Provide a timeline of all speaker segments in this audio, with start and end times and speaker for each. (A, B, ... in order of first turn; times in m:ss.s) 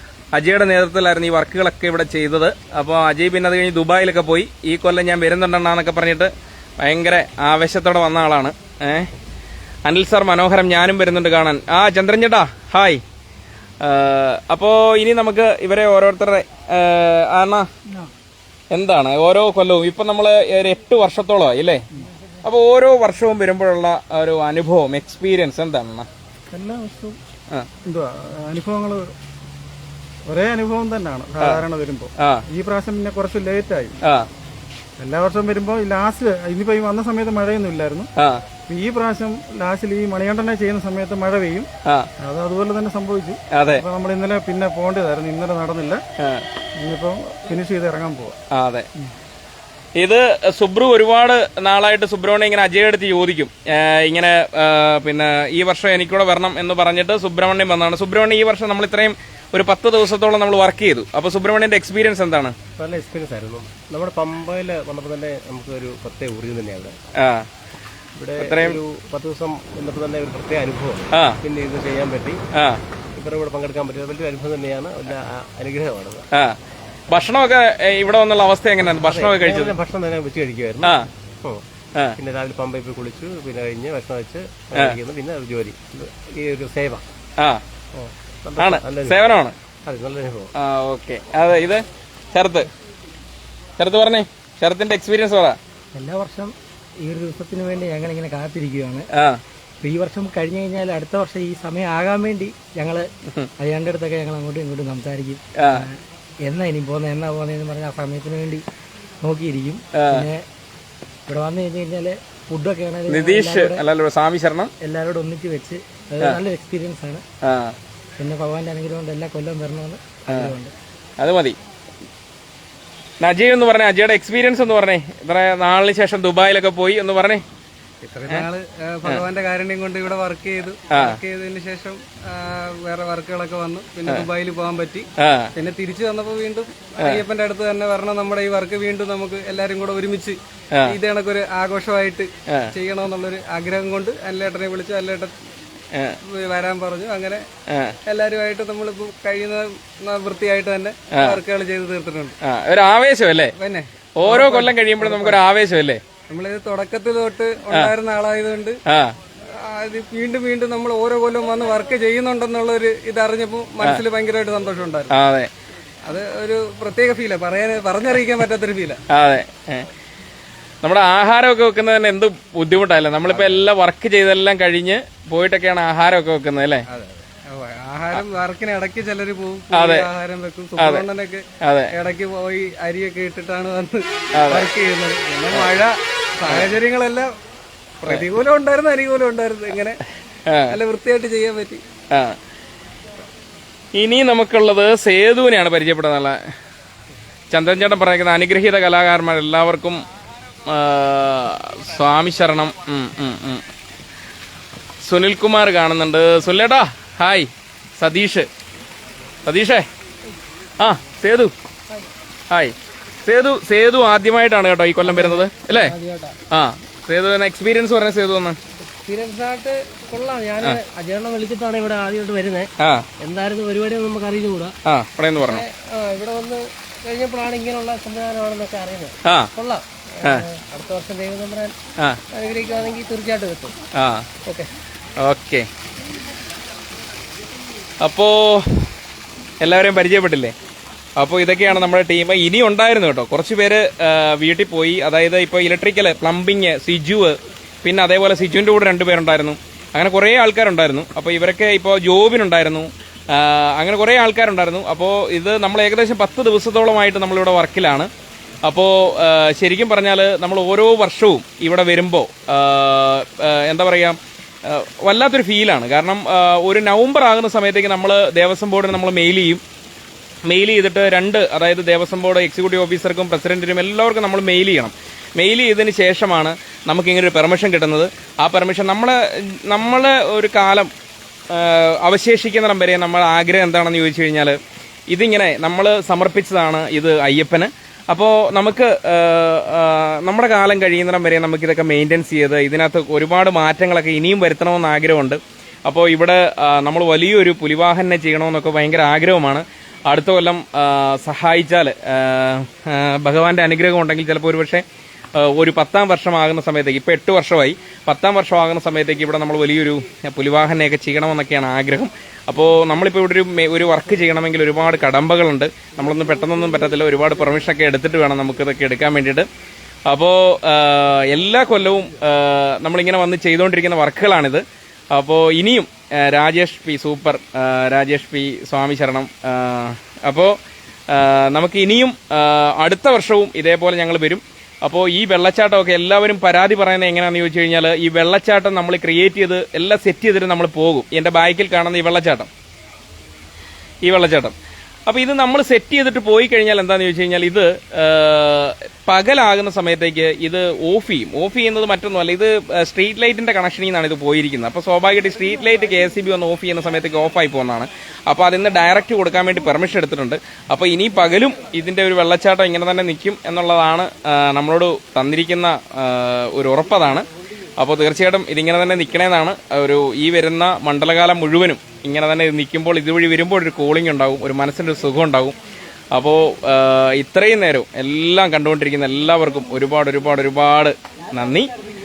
0:00.3-0:09.1 A
0:09.9-0:13.0 A
0:13.8-0:17.7 A
0:18.7-0:21.8 A
0:22.4-0:26.1 A
0:26.5-0:27.2 B
0:27.8-0:29.1 B
0:30.3-0:34.0 B
0:32.2-0:32.4 A
0:35.0-0:38.1 B
0:38.2-0:38.4 A
0:38.7-0:41.7 B
0:42.2-0:46.0 B
0:43.5-0:43.8 A
0:46.2-0:46.4 A
0:46.8-0:48.3 B
0:48.5-0:48.9 A
0:50.0-1:02.6 A
1:02.8-1:07.0 C
1:07.2-1:07.5 A
1:08.2-1:12.4 C
1:08.4-1:08.8 A
1:11.1-1:11.4 A
1:12.5-1:12.8 A
1:13.2-1:16.2 C
1:17.1-1:19.8 A
1:19.0-1:21.6 C
1:20.8-1:21.1 A
1:22.2-1:27.0 C
1:28.4-1:29.3 C
1:28.6-1:29.5 A
1:29.8-1:30.5 C
1:30.6-1:32.7 A
1:33.8-1:35.6 A
1:36.0-1:36.5 D
1:37.0-1:39.1 D
1:39.1-1:39.4 A
1:39.8-1:43.1 D
1:43.6-1:48.6 D
1:45.6-1:45.9 A
1:49.2-1:50.4 D
1:49.9-1:50.3 A
1:51.3-1:53.9 D
1:53.1-1:54.7 A
1:54.8-1:57.2 D
1:57.4-1:57.8 A
1:58.2-2:00.7 D
2:00.3-2:00.6 A
2:01.2-2:01.6 A
2:03.2-2:07.4 A
2:08.1-2:25.3 E
2:10.9-2:11.2 A
2:15.2-2:15.5 A
2:20.7-2:21.0 A
2:22.5-2:22.7 A
2:25.9-2:26.2 A
2:26.2-2:27.4 E
2:27.7-2:28.0 A
2:28.1-2:32.4 E
2:31.1-2:31.4 A
2:32.4-2:33.5 A
2:33.5-2:35.4 E
2:34.2-2:36.0 A
2:36.3-2:38.8 E
2:38.9-2:39.2 A
2:39.6-2:45.1 E
2:45.1-2:45.5 A
2:46.1-2:49.0 E
2:49.1-2:49.9 A
2:50.8-2:56.8 A
2:56.9-3:01.4 E
2:59.7-3:00.1 A
3:00.8-3:01.1 A
3:01.6-3:01.9 A
3:01.9-3:07.3 E
3:04.3-3:04.7 A
3:05.5-3:05.8 A
3:06.5-3:06.7 A
3:08.0-3:10.0 E
3:10.5-3:10.8 A
3:10.7-3:11.8 E
3:12.1-3:12.4 A
3:14.0-3:16.4 A
3:17.5-3:20.0 A
3:20.7-3:23.6 A
3:25.0-3:28.5 A
3:29.4-3:29.9 A
3:30.8-3:31.5 A
3:32.5-3:36.0 A
3:35.0-3:36.3 D
3:36.5-3:38.6 A
3:39.1-3:42.7 D
3:42.8-3:43.1 A
3:43.2-3:44.7 D
3:44.9-3:45.6 A
3:45.4-3:51.7 D
3:49.2-3:49.5 A
3:50.2-3:50.5 A
3:52.4-3:53.7 D
3:54.0-3:54.3 A
3:55.2-3:55.7 A
3:58.0-3:58.9 A
3:59.6-4:00.5 A
4:01.2-4:18.1 A
4:18.7-4:29.6 A
4:30.4-4:40.9 A
4:41.5-4:44.6 A
4:45.1-5:04.8 A
5:05.4-5:19.5 A
5:20.1-5:30.6 A
5:31.1-5:42.5 A
5:44.0-5:44.6 A
5:45.1-6:07.3 A
6:07.8-6:15.6 A
6:16.1-6:21.7 A